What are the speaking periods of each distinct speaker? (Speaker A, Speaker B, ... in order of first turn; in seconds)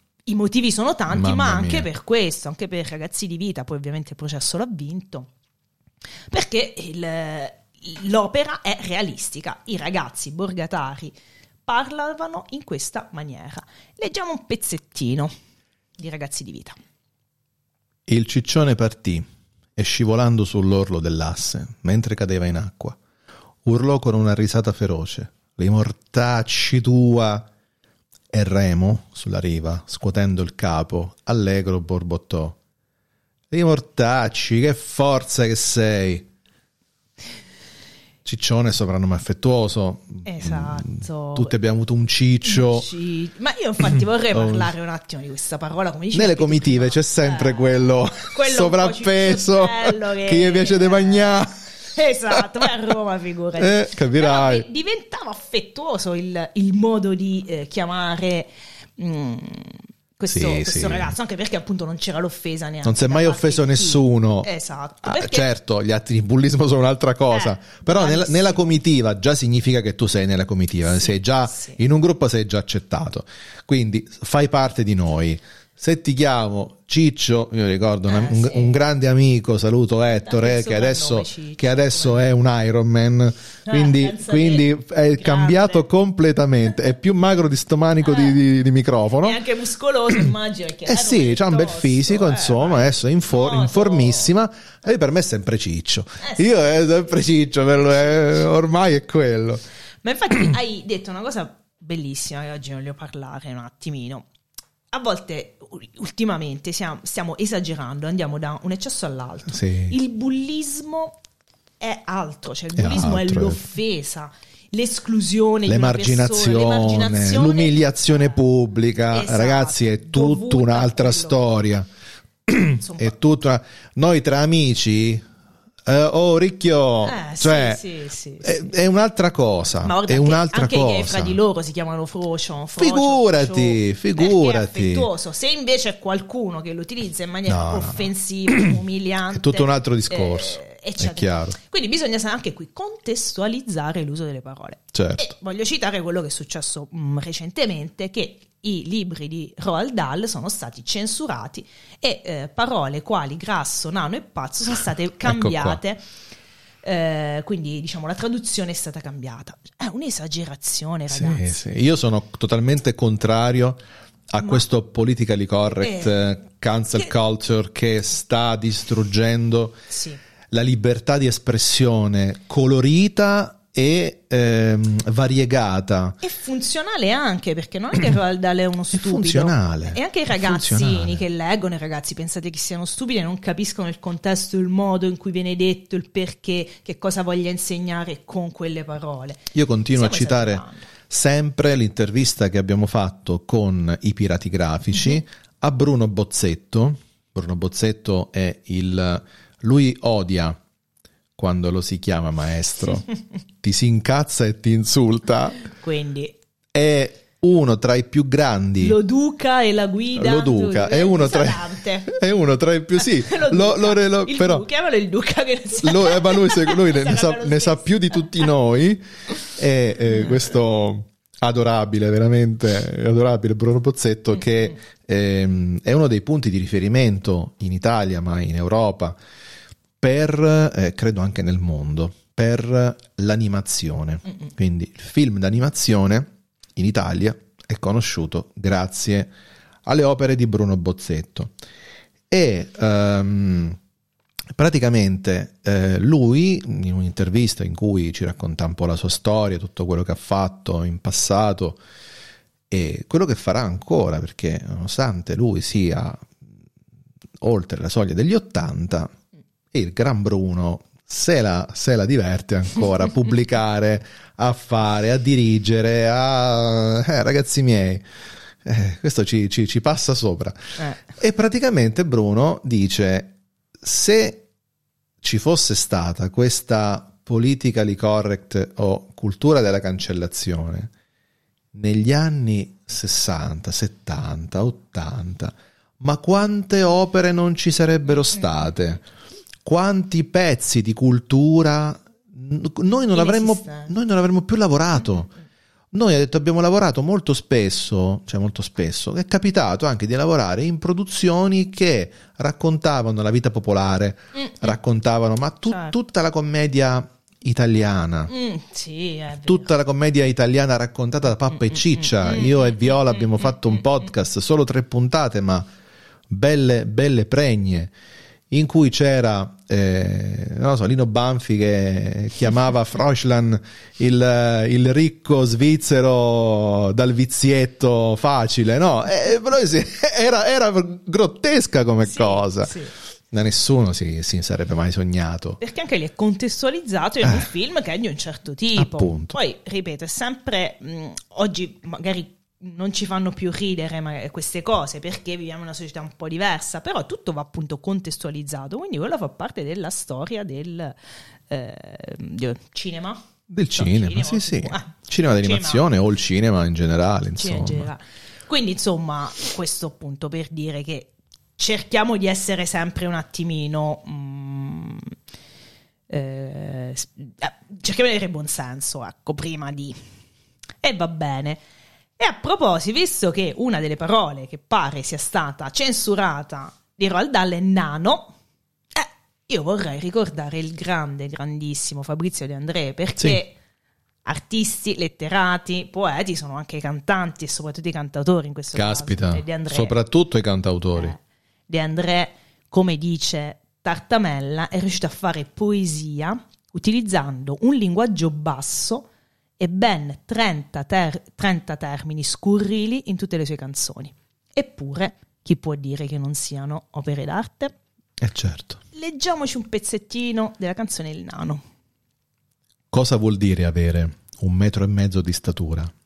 Speaker A: 0.2-5.3, 6.3-15.3, 16.0-16.8, 40.2-41.5, 42.5-47.7, 48.2-65.5, 67.3-68.8, 70.8-71.8, 78.1-78.7, 80.2-82.3, 83.7-85.9, 88.0-88.4, 89.2-94.3, 96.2-96.5, 100.0-104.2, 104.9-111.2, 111.8-118.4, 119.1-121.4, 122.8-123.2, 127.0-128.6, 129.8-156.0, 156.8-161.5, 165.8-166.1, 169.9-170.2, 176.2-190.9, 205.7-206.3, 208.8-212.1, 213.2-218.2, 293.1-293.9, 308.3-309.7, 311.7-313.8, 332.1-332.9, 335.6-350.9, 351.5-353.2, 353.8-355.9, 357.4-365.1, 366.1-370.0, 370.8-371.6, 372.2-378.3, 378.9-383.6, 384.2-389.9, 391.7-399.1, 399.6-407.7, 408.9-411.6
Speaker B: 1.1-1.9, 18.1-19.2, 19.8-23.0, 23.6-27.5, 28.3-32.6, 33.5-36.3, 38.2-42.9, 44.3-44.7, 46.1-51.6, 53.6-54.7, 60.3-61.1, 62.8-64.5, 65.0-89.4, 90.8-99.6, 109.5-110.0, 112.8-113.6, 115.7-121.9, 122.5-125.2, 125.8-127.8, 128.4-131.4, 132.8-135.1, 137.4-138.7, 139.3-141.6, 144.9-145.3, 155.2-155.8, 161.1-169.8, 170.5-176.2, 178.9-181.2, 189.5-200.6, 201.3-203.1, 203.6-205.7, 206.7-209.0, 210.2-214.6, 215.8-229.2, 230.0-239.3, 239.8-241.5, 242.3-243.8, 244.6-251.8, 252.7-256.4, 257.4-259.1, 259.7-268.1, 268.6-274.4, 275.2-280.9, 281.7-289.0, 289.6-295.3, 295.9-308.3, 309.4-315.6, 316.3-317.9, 318.5-332.7, 333.3-335.6, 338.8-339.4, 353.5-357.9, 388.7-391.1, 408.2-408.8, 412.9-415.9